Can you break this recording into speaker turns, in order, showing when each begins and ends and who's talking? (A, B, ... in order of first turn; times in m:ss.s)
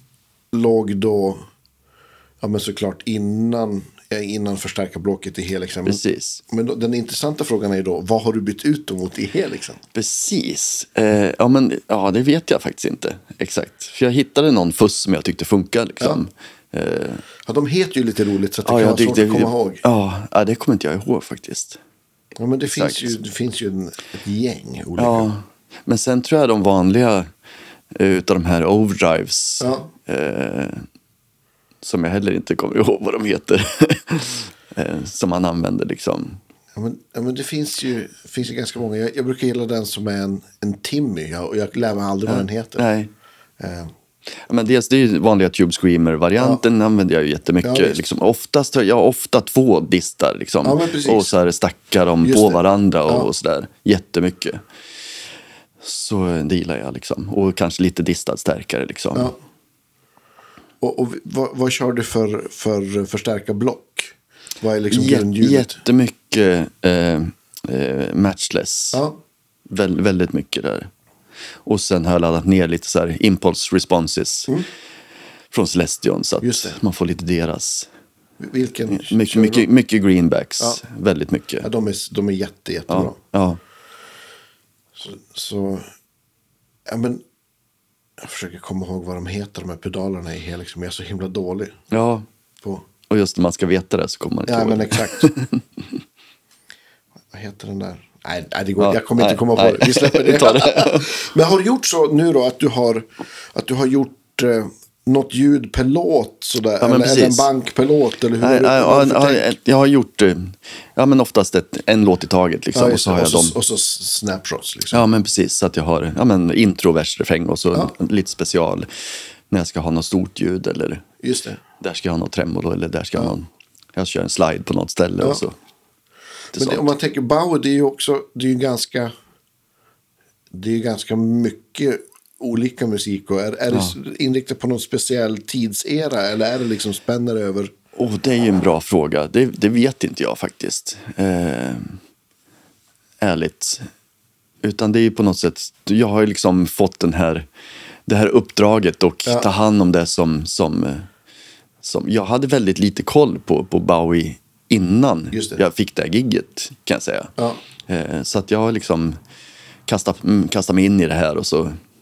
0:00.5-0:01.4 A
0:02.4-0:09.8 A
0:05.8-0:06.4 B
0:09.9-0:17.2 B
0:17.4-0:19.8 A
0:18.6-0:21.8 B
0:22.4-0:25.3 A
0:22.7-0:23.2 B
0:25.0-0:27.3 B
0:27.9-0:30.8 B
0:29.6-0:29.9 A
0:31.8-0:36.4 B
0:36.8-0:42.8 A
0:42.2-0:43.1 B
0:43.6-0:43.9 A
0:44.3-0:54.6 B
0:47.6-0:48.0 A
0:50.6-0:51.3 A
0:52.2-0:53.3 A
0:55.8-0:59.3 B
1:00.8-1:05.8 A
1:04.9-1:09.0 B
1:08.9-1:09.2 A
1:09.7-1:10.9 B
1:11.6-1:14.5 B
1:15.5-1:17.9 B
1:16.4-1:16.8 A
1:18.4-1:19.7 A
1:18.9-1:21.7 B
1:21.6-1:23.2 A
1:22.9-1:23.6 B
1:25.0-1:25.8 A
1:26.9-1:27.2 A
1:28.2-1:31.8 A
1:31.9-1:32.2 B
1:32.6-1:32.9 A
1:33.1-1:35.6 B
1:34.5-1:35.3 A
1:37.3-1:49.5 A
1:38.8-1:41.1 B
1:46.8-1:47.5 B
1:48.4-1:53.5 B
1:52.7-1:55.0 A
1:54.9-1:58.9 B
1:59.5-2:01.0 B
2:01.2-2:01.6 A
2:01.8-2:05.5 B
2:06.5-2:06.9 B
2:06.5-2:09.1 A
2:10.5-2:17.7 A
2:17.9-2:22.0 B
2:23.2-2:23.9 B
2:24.6-2:27.5 B
2:28.0-2:31.1 B
2:31.8-2:37.3 B
2:35.3-2:35.6 A
2:37.9-2:39.2 B
2:39.9-2:41.8 B